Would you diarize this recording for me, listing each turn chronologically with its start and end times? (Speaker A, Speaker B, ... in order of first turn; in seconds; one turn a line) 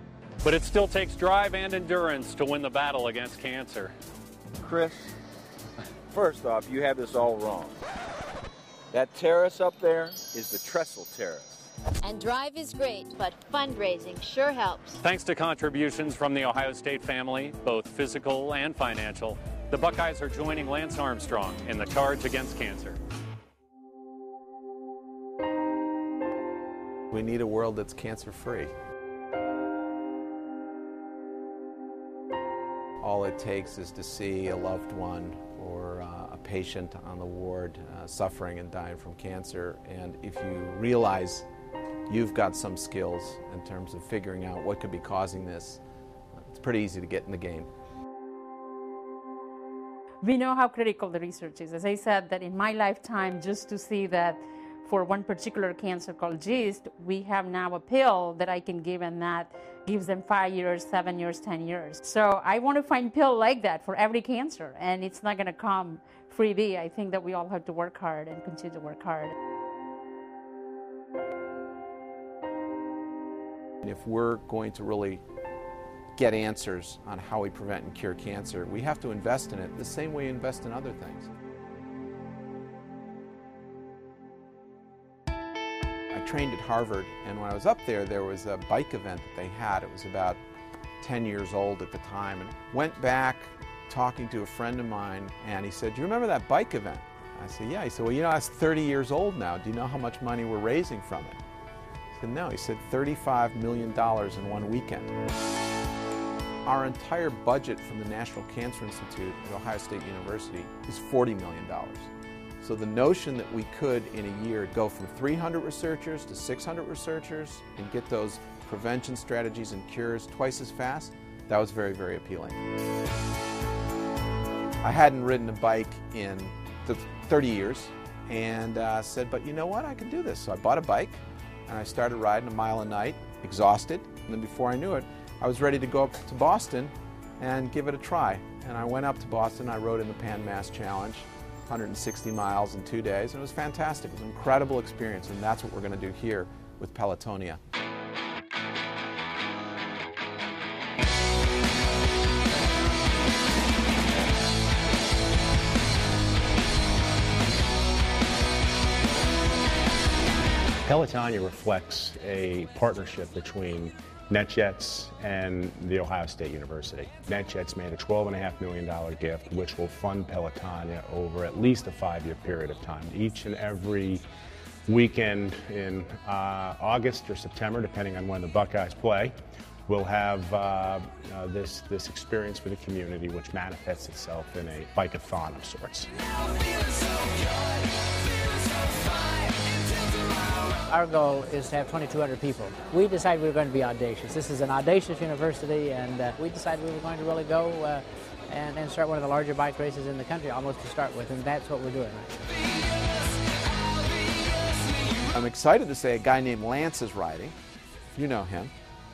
Speaker A: 0.4-3.9
Speaker B: 4.7-5.0
Speaker B: 6.1-7.7
Speaker B: 8.9-11.4
Speaker C: 12.0-15.0
Speaker A: 15.0-23.0
Speaker D: 27.1-28.7
Speaker D: 33.0-41.5
Speaker D: 42.1-45.8
Speaker D: 46.4-47.7
Speaker E: 50.2-69.3
Speaker D: 73.8-75.2
Speaker D: 76.2-81.3
Speaker D: 86.1-90.4
Speaker D: 91.0-101.4
Speaker D: 102.2-105.1
Speaker D: 106.6-112.1
Speaker D: 112.6-122.6
Speaker D: 124.8-147.6
Speaker F: 160.8-174.2
Speaker F: 174.9-179.3
Speaker F: 179.9-186.1
Speaker G: 190.9-202.4
Speaker D: 205.3-207.5
Speaker D: 208.1-208.7